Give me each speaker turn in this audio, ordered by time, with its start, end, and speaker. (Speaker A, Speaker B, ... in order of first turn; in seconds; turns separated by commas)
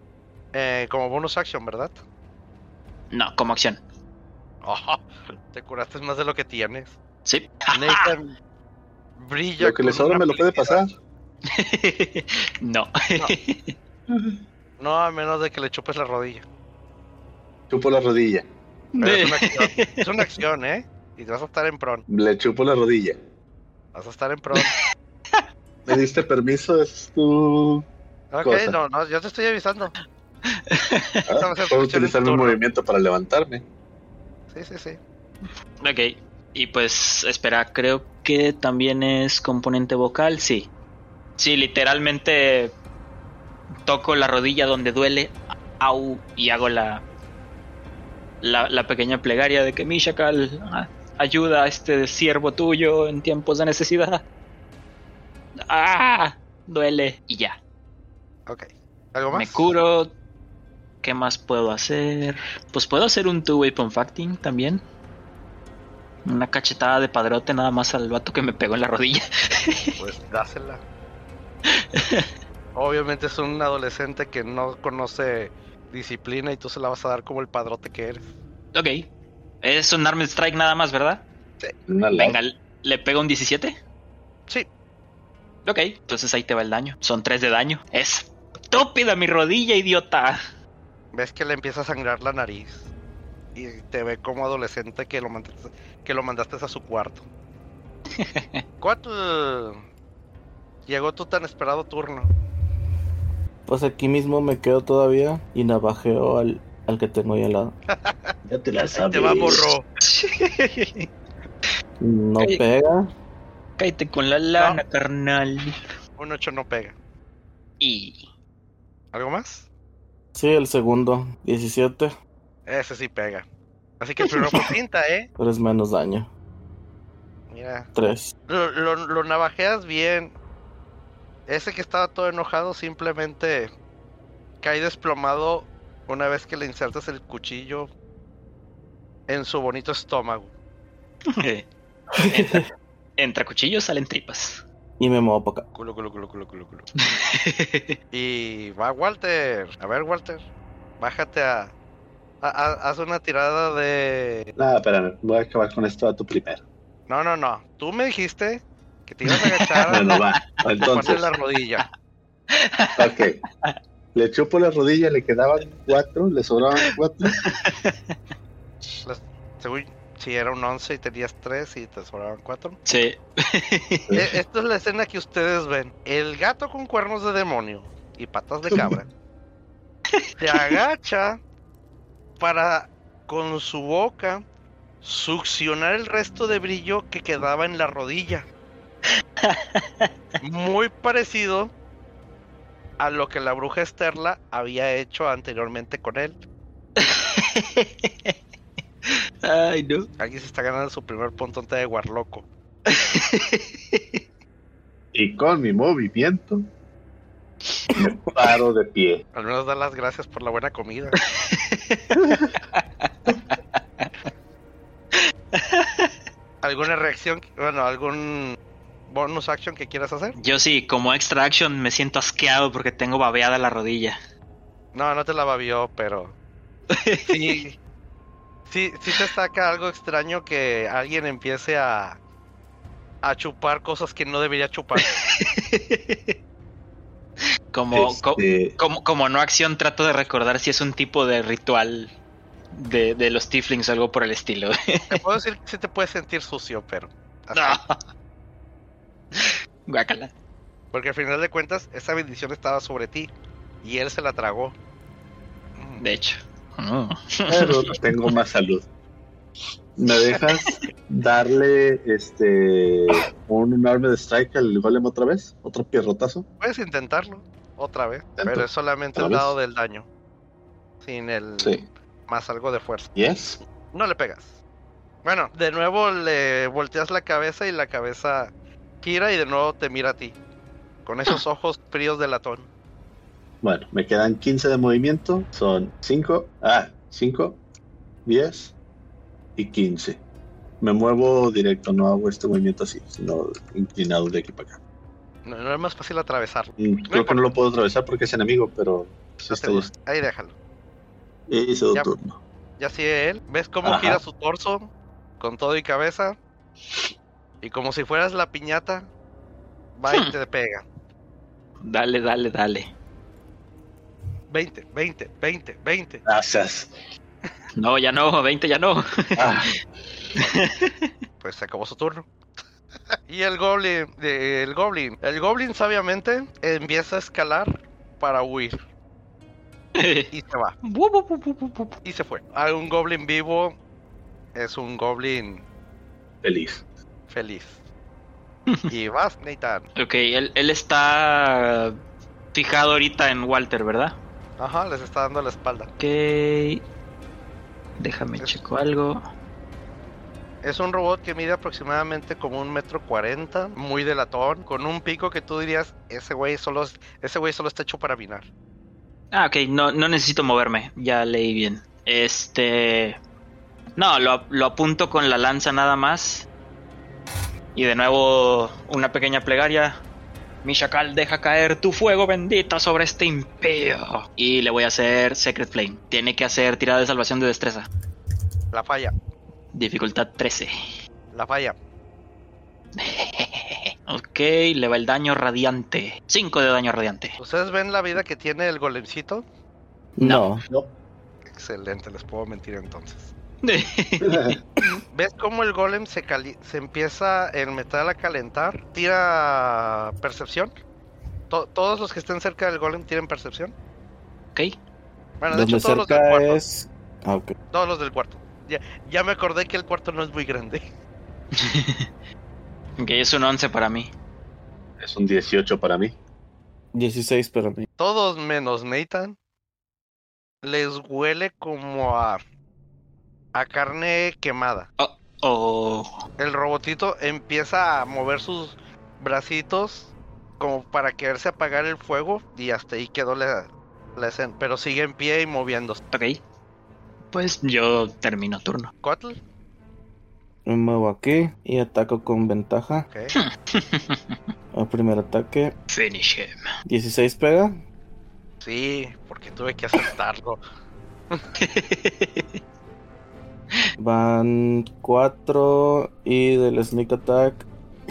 Speaker A: 0.5-2.0, Speaker B: 3.1-3.8, Speaker A: 4.6-7.0, Speaker B: 7.2-8.1, Speaker A: 7.7-8.3, Speaker A: 9.2-10.8, Speaker C: 9.6-10.9, Speaker B: 11.5-13.7, Speaker C: 14.1-14.4, Speaker A: 14.8-16.4, Speaker C: 17.7-18.5, Speaker A: 19.0-22.0, Speaker B: 19.0-20.3, Speaker C: 22.1-23.2, Speaker A: 23.9-24.7, Speaker C: 25.9-27.8, Speaker A: 28.3-29.9, Speaker C: 28.4-28.8, Speaker B: 30.5-31.2, Speaker C: 31.2-33.6, Speaker A: 31.4-32.6, Speaker A: 34.5-35.0, Speaker B: 35.8-40.7, Speaker B: 41.4-42.7, Speaker B: 43.9-47.0, Speaker B: 48.4-54.2, Speaker B: 55.6-57.5, Speaker A: 58.5-59.7, Speaker B: 59.3-60.1, Speaker B: 61.0-64.8, Speaker B: 66.2-69.9, Speaker A: 70.0-70.8, Speaker B: 71.9-72.3, Speaker A: 72.7-78.3, Speaker B: 78.7-79.1, Speaker B: 79.6-81.2, Speaker C: 81.9-82.4, Speaker B: 82.2-83.8, Speaker B: 85.6-90.4, Speaker A: 91.1-92.9, Speaker A: 93.5-97.2, Speaker B: 98.2-98.6, Speaker A: 98.8-99.8, Speaker A: 100.9-102.3, Speaker D: 103.7-107.7, Speaker A: 107.9-108.3, Speaker C: 108.4-109.7, Speaker A: 108.9-109.8, Speaker B: 110.0-111.1, Speaker D: 112.0-113.1, Speaker B: 113.8-115.8, Speaker A: 114.6-114.8, Speaker A: 116.2-117.0, Speaker B: 117.8-118.2, Speaker A: 119.1-119.7, Speaker D: 120.3-122.1, Speaker A: 122.7-123.4, Speaker A: 124.0-125.3, Speaker B: 124.2-124.7, Speaker D: 125.4-126.3, Speaker A: 127.5-127.9, Speaker D: 127.9-128.3, Speaker A: 128.5-130.3, Speaker A: 131.5-133.7, Speaker A: 134.6-137.9, Speaker A: 139.3-140.5, Speaker B: 141.3-141.6, Speaker D: 142.2-142.6, Speaker B: 142.2-142.7, Speaker B: 143.2-144.6, Speaker D: 145.0-145.7, Speaker A: 145.7-146.8, Speaker B: 147.0-147.9, Speaker A: 148.1-150.4, Speaker A: 151.0-151.7, Speaker A: 152.4-154.5, Speaker C: 154.6-156.6, Speaker A: 157.1-160.2, Speaker B: 159.2-160.2, Speaker C: 159.9-161.2, Speaker A: 160.8-161.9, Speaker B: 162.5-163.8, Speaker C: 163.0-163.4, Speaker C: 164.1-167.4, Speaker B: 166.8-168.1, Speaker A: 169.0-172.8, Speaker B: 172.8-174.2, Speaker A: 174.1-179.1, Speaker A: 180.4-181.4, Speaker B: 180.5-180.8, Speaker A: 182.4-184.4, Speaker A: 185.0-188.5, Speaker B: 189.4-190.1, Speaker A: 190.4-191.7, Speaker A: 193.0-196.4, Speaker B: 197.0-198.3, Speaker B: 199.1-200.1, Speaker A: 200.2-202.4, Speaker B: 202.9-204.2, Speaker C: 205.1-206.7, Speaker C: 207.9-209.2, Speaker A: 209.3-211.2, Speaker B: 211.3-214.1, Speaker B: 215.1-216.1, Speaker A: 216.6-220.4, Speaker B: 220.4-224.2, Speaker A: 224.9-226.3, Speaker B: 226.9-227.5, Speaker A: 227.2-227.8, Speaker A: 228.7-232.2, Speaker A: 233.2-235.2, Speaker B: 235.0-236.3, Speaker B: 237.7-242.1, Speaker C: 237.9-238.8, Speaker B: 242.7-245.2, Speaker A: 245.1-247.8, Speaker B: 247.5-247.9, Speaker B: 249.3-250.3, Speaker A: 250.9-253.3, Speaker A: 253.8-254.7, Speaker A: 255.8-256.0, Speaker B: 256.0-258.0, Speaker C: 257.5-258.9, Speaker C: 260.0-266.4, Speaker A: 266.6-270.1, Speaker C: 268.4-269.5, Speaker A: 271.0-273.1, Speaker C: 271.6-271.9, Speaker C: 273.1-273.6, Speaker A: 273.9-274.6, Speaker A: 275.2-280.4, Speaker A: 281.1-282.7, Speaker C: 283.6-287.6, Speaker C: 288.2-288.7, Speaker C: 289.6-290.2, Speaker C: 290.8-294.8, Speaker A: 295.4-297.4, Speaker C: 296.8-299.9, Speaker A: 299.5-300.5, Speaker C: 301.5-302.4, Speaker A: 302.8-306.4, Speaker C: 303.8-304.2, Speaker A: 307.6-309.1, Speaker A: 309.9-310.8, Speaker B: 311.8-312.9, Speaker A: 314.5-316.2, Speaker C: 316.2-316.9, Speaker B: 317.8-319.7, Speaker C: 319.4-319.8, Speaker B: 320.4-321.1, Speaker A: 321.4-322.3, Speaker A: 323.3-328.8, Speaker B: 329.9-330.3, Speaker A: 330.3-330.7, Speaker B: 330.8-331.9, Speaker A: 332.0-333.8, Speaker A: 334.5-335.6, Speaker C: 336.4-336.8, Speaker A: 337.3-337.8, Speaker A: 338.9-339.9, Speaker B: 339.9-342.0, Speaker B: 342.5-344.1, Speaker A: 344.6-345.9, Speaker B: 346.0-346.8, Speaker B: 348.0-349.2, Speaker A: 350.6-358.5, Speaker B: 359.3-363.2, Speaker B: 363.9-366.5, Speaker B: 367.7-370.0, Speaker B: 370.6-377.9, Speaker A: 378.7-379.1, Speaker B: 379.7-380.7, Speaker A: 381.3-381.8, Speaker B: 383.0-387.4, Speaker A: 387.4-389.4, Speaker D: 390.2-390.6, Speaker B: 390.2-390.4, Speaker A: 391.5-393.3, Speaker B: 393.6-394.5, Speaker C: 394.2-394.6, Speaker A: 395.1-400.7, Speaker A: 401.5-403.7, Speaker A: 405.4-406.6, Speaker D: 405.5-407.5, Speaker A: 407.7-410.8, Speaker B: 411.5-412.1, Speaker B: 413.0-414.1, Speaker C: 415.0-416.1, Speaker D: 416.9-417.9, Speaker A: 418.0-419.4, Speaker A: 420.6-422.4, Speaker A: 423.5-424.9, Speaker B: 425.0-426.1, Speaker A: 426.4-436.0, Speaker B: 436.1-436.4, Speaker B: 437.3-438.9, Speaker A: 439.0-439.4, Speaker D: 440.6-443.1, Speaker A: 443.1-443.4, Speaker B: 443.3-444.4, Speaker D: 444.7-445.7, Speaker B: 445.9-446.5, Speaker D: 446.9-447.8, Speaker A: 448.6-450.6, Speaker B: 451.6-452.6, Speaker D: 454.0-457.6